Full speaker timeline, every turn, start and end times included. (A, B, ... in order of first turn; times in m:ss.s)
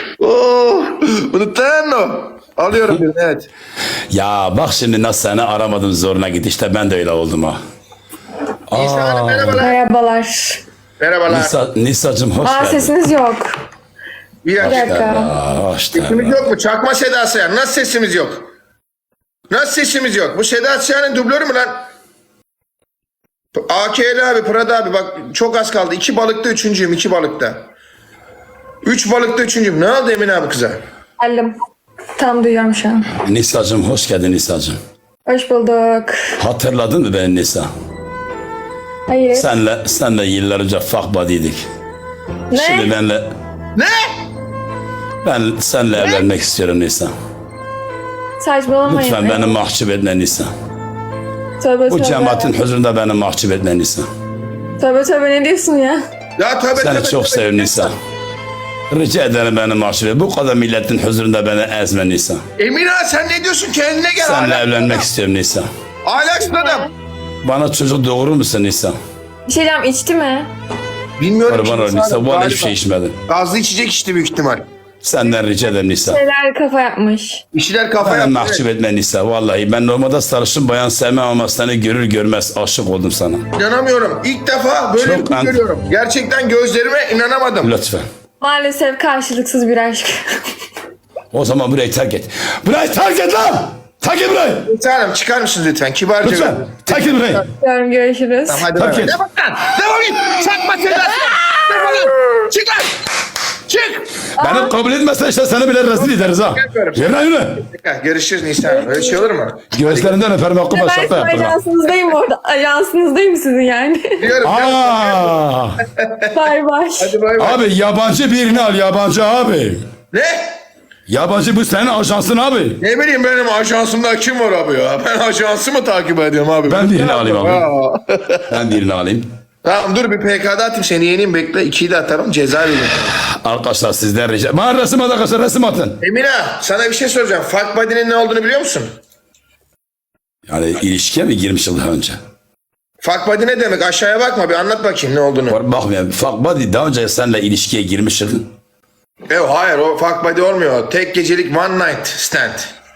0:00.2-0:03.5 A
0:04.1-0:07.6 B
0:08.7-0:09.6 B
0:08.7-0:09.8 A
0:09.6-0:10.6 C
0:11.0-0:11.6 A
0:11.3-0:12.9 B
0:12.4-0:13.5 C
0:14.4-0:15.0 A
0:14.6-0:16.3 B
0:14.6-0:15.3 C
0:15.9-0:18.5 A
0:19.5-0:21.9 A
0:23.5-0:27.7 A
0:28.8-0:30.8 A
0:31.2-0:31.5 C
0:32.2-0:33.1 C
0:33.2-0:34.8 B
0:35.2-0:36.2 C
0:36.4-0:37.7 B
0:39.1-0:39.5 C
0:39.3-0:41.6 B
0:42.5-0:42.9 C
0:42.5-0:43.3 B
0:43.8-0:44.1 A
0:45.2-0:47.1 B
0:46.0-0:46.2 A
0:48.4-0:49.6 C
0:48.8-0:50.5 B
0:51.6-0:52.5 C
0:51.9-0:54.1 B
0:54.8-0:56.0 C
0:56.4-0:57.9 A
0:56.8-0:58.0 B
0:58.9-1:02.4 B
1:02.6-1:05.1 A
1:04.2-1:05.7 B
1:06.0-1:06.9 A
1:06.2-1:06.9 C
1:07.4-1:09.0 B
1:09.5-1:10.5 C
1:11.2-1:12.7 A
1:11.5-1:13.2 B
1:13.3-1:14.7 A
1:15.0-1:16.2 B
1:16.0-1:17.4 C
1:17.5-1:18.6 A
1:18.0-1:23.4 B
1:23.6-1:27.7 A
1:25.0-1:25.6 B
1:27.6-1:28.0 B
1:28.4-1:30.4 C
1:31.3-1:34.7 B
1:34.6-1:37.5 A
1:36.2-1:37.4 B
1:37.6-1:38.7 C
1:38.5-1:42.9 A
1:38.8-1:39.1 B
1:43.7-1:44.1 A
1:44.4-1:44.7 C
1:44.4-1:47.6 B
1:45.9-1:50.2 A
1:48.6-1:49.2 C
1:49.7-1:51.6 B
1:50.7-1:54.3 C
1:54.2-1:56.3 A
1:54.4-1:55.8 B
1:56.3-1:57.1 C
1:57.0-1:57.6 A
1:57.4-1:59.8 B
2:00.1-2:00.6 A
2:01.1-2:02.8 B
2:02.8-2:08.5 A
2:06.7-2:07.6 B
2:08.5-2:09.3 B
2:09.6-2:13.1 A
2:13.1-2:16.0 B
2:16.0-2:18.9 A
2:20.5-2:22.2 B
2:23.0-2:25.6 A
2:25.5-2:28.5 B
2:29.3-2:32.7 A